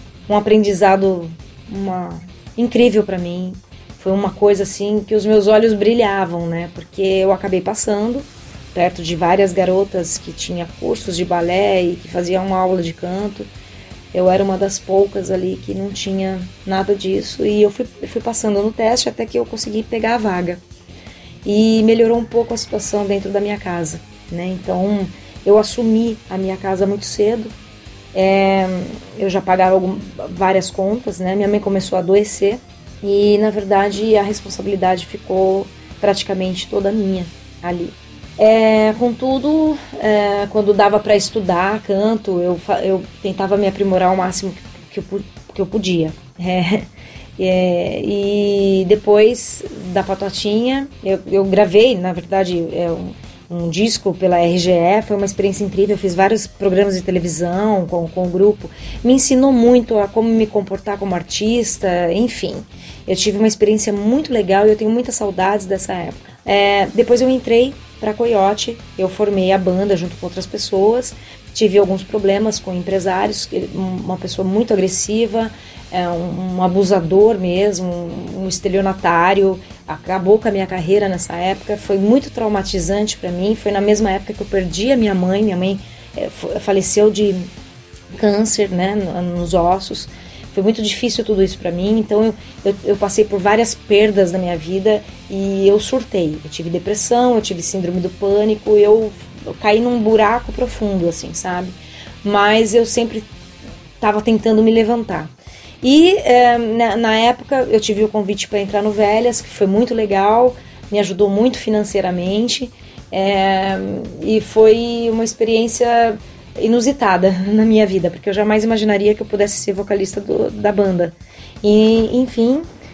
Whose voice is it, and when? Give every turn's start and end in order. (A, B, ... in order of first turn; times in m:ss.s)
0:00.3-0:13.5 A
0:14.1-0:20.6 A
0:21.4-0:27.5 A
0:28.1-1:27.5 A
1:28.1-1:43.3 A
1:44.0-2:02.7 A